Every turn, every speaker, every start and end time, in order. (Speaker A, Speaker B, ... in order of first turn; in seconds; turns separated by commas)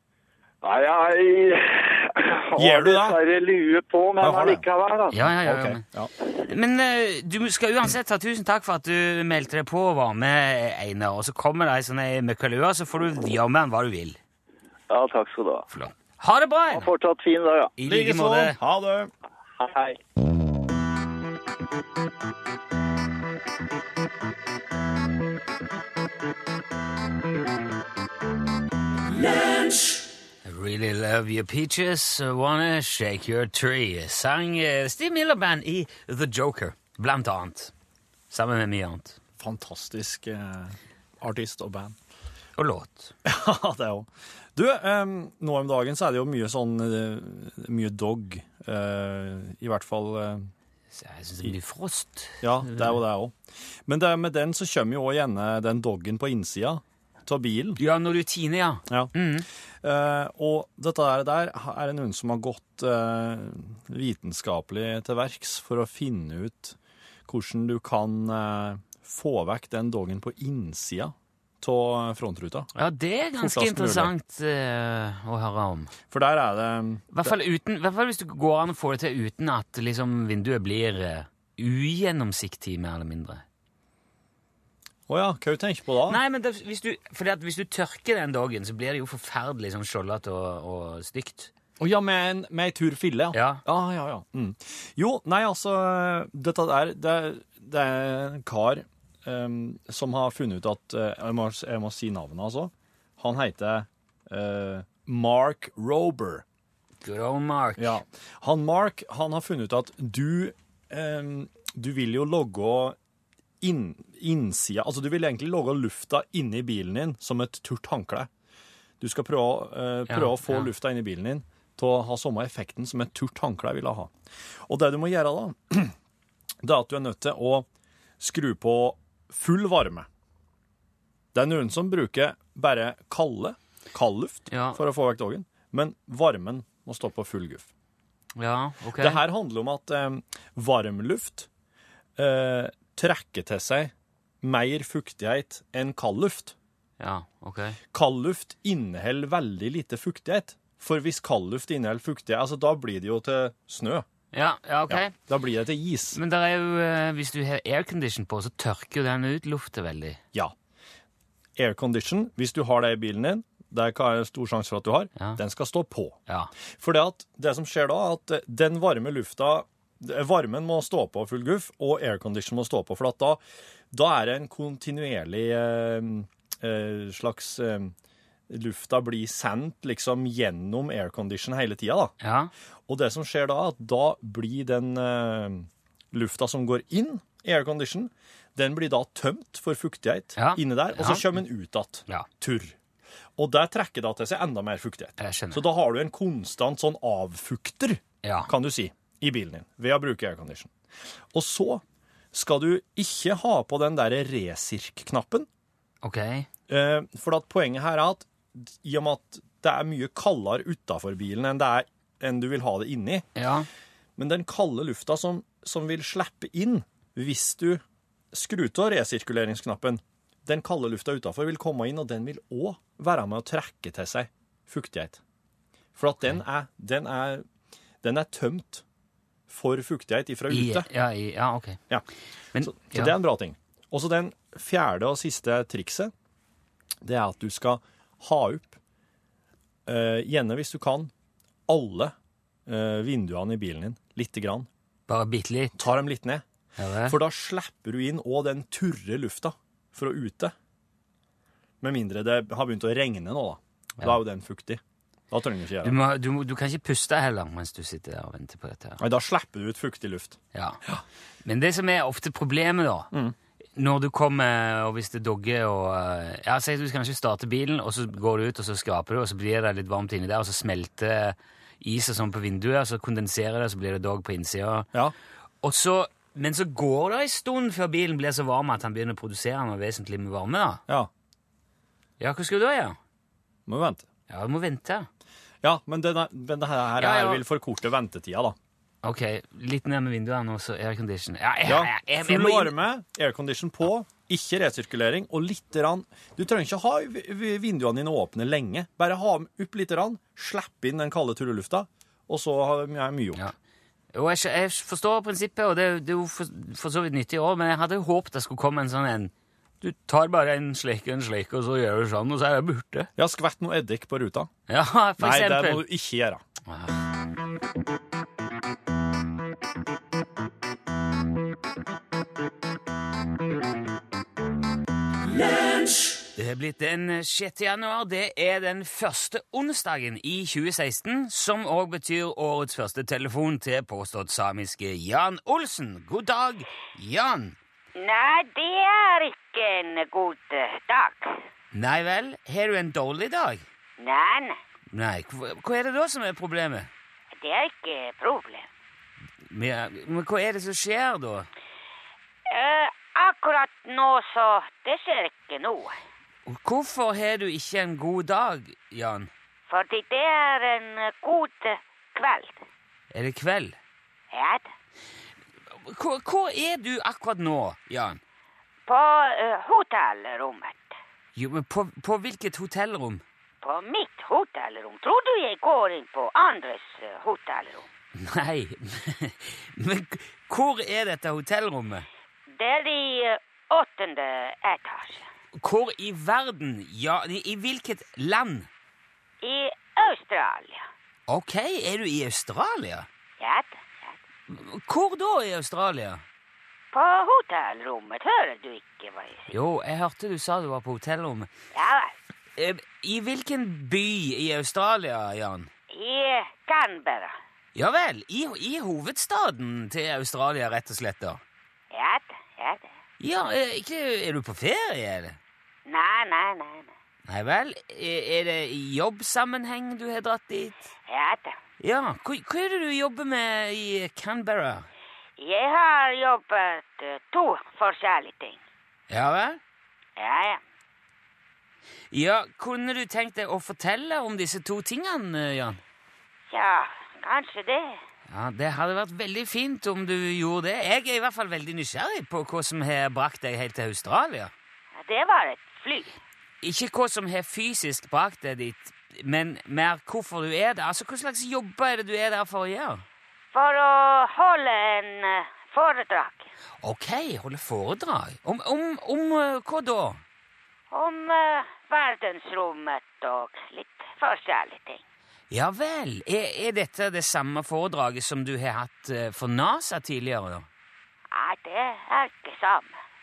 Speaker A: 0.6-5.2, Speaker B: 2.6-3.2, Speaker B: 4.2-4.7, Speaker C: 5.1-14.2, Speaker B: 5.3-6.1, Speaker A: 14.9-15.7, Speaker C: 15.7-16.9, Speaker A: 16.7-17.7, Speaker C: 17.8-18.6, Speaker B: 17.8-19.1, Speaker A: 19.6-20.0, Speaker C: 30.4-37.7, Speaker C: 38.3-39.2, Speaker B: 39.4-42.0, Speaker C: 42.6-43.1, Speaker B: 43.2-50.5, Speaker C: 50.9-53.0, Speaker B: 52.4-57.8, Speaker C: 57.8-59.5, Speaker B: 59.8-66.8, Speaker B: 67.3-72.7, Speaker C: 72.8-75.9, Speaker B: 73.4-74.1, Speaker B: 76.1-77.4, Speaker C: 77.1-83.4, Speaker B: 85.1-86.2, Speaker C: 86.1-91.5, Speaker B: 91.8-106.5, Speaker C: 93.3-93.6, Speaker C: 107.0-108.0, Speaker B: 107.8-113.0, Speaker B: 113.6-118.3, Speaker B: 119.0-124.1, Speaker C: 120.1-120.7, Speaker B: 124.7-125.9, Speaker B: 126.6-127.7, Speaker B: 128.2-130.1, Speaker B: 131.3-137.7, Speaker C: 134.5-134.8, Speaker C: 138.4-139.2, Speaker B: 139.0-141.5, Speaker B: 142.2-146.6, Speaker C: 147.0-147.8, Speaker B: 147.9-154.1, Speaker C: 154.3-155.1, Speaker B: 154.9-156.2, Speaker C: 156.2-160.2, Speaker B: 161.6-166.2, Speaker B: 166.8-177.9, Speaker B: 178.5-182.1, Speaker C: 182.2-182.5, Speaker B: 182.9-192.8, Speaker C: 190.4-191.4, Speaker B: 193.4-200.7, Speaker C: 195.2-195.6, Speaker C: 198.2-198.5, Speaker B: 201.3-205.5, Speaker C: 206.0-206.5, Speaker B: 206.7-213.2, Speaker C: 213.4-213.7, Speaker B: 214.2-225.2, Speaker B: 226.0-227.4, Speaker B: 228.0-228.8, Speaker B: 229.5-230.9, Speaker C: 230.5-231.8, Speaker C: 232.5-233.1, Speaker B: 232.6-236.1, Speaker B: 237.0-238.8, Speaker B: 239.9-241.1, Speaker B: 241.7-242.1, Speaker B: 242.7-244.7, Speaker C: 245.1-245.8, Speaker B: 245.8-246.4, Speaker C: 246.8-247.2, Speaker B: 247.1-250.5, Speaker B: 251.8-256.0, Speaker C: 255.8-259.0, Speaker B: 259.0-261.0, Speaker C: 260.5-260.8, Speaker C: 261.4-263.1, Speaker C: 263.8-274.9, Speaker C: 275.6-280.8, Speaker C: 282.2-283.0, Speaker B: 283.7-284.1, Speaker C: 284.3-285.1, Speaker B: 285.6-288.6, Speaker C: 287.0-287.4, Speaker C: 289.0-292.8, Speaker B: 291.6-303.4, Speaker C: 304.1-313.1, Speaker B: 313.2-314.5, Speaker C: 314.7-315.8, Speaker B: 315.2-316.4, Speaker C: 316.7-317.0, Speaker C: 326.4-337.6, Speaker D: 338.0-341.4, Speaker C: 341.7-343.6, Speaker D: 344.0-344.6, Speaker C: 344.9-346.9, Speaker D: 347.4-348.7, Speaker C: 349.5-351.5, Speaker D: 352.5-356.0, Speaker C: 356.5-359.3, Speaker D: 359.7-362.6, Speaker C: 363.1-363.8, Speaker D: 364.3-364.7, Speaker C: 365.7-368.2, Speaker D: 368.9-371.0, Speaker C: 371.4-373.2, Speaker D: 373.6-377.9, Speaker C: 378.2-382.1, Speaker D: 382.5-385.3, Speaker C: 385.6-388.7, Speaker D: 389.4-390.9, Speaker C: 391.3-393.1, Speaker D: 393.4-394.2, Speaker C: 394.5-396.2, Speaker D: 396.9-399.6, Speaker C: 399.5-401.5, Speaker D: 401.7-402.1, Speaker C: 402.6-405.7, Speaker D: 405.9-407.4, Speaker C: 407.8-411.4, Speaker D: 411.9-412.9, Speaker C: 413.2-415.4, Speaker D: 415.9-416.9, Speaker C: 417.3-420.8, Speaker D: 421.1-421.6, Speaker C: 421.8-424.9, Speaker D: 425.4-428.6, Speaker C: 429.1-429.6, Speaker D: 430.2-430.6, Speaker C: 432.1-435.8, Speaker D: 436.5-438.0, Speaker C: 438.3-444.5, Speaker D: 444.9-446.2, Speaker C: 446.6-453.1, Speaker D: 453.5-456.5, Speaker C: 456.8-460.2, Speaker D: 460.9-465.0, Speaker C: 465.5-470.7, Speaker D: 471.3-473.0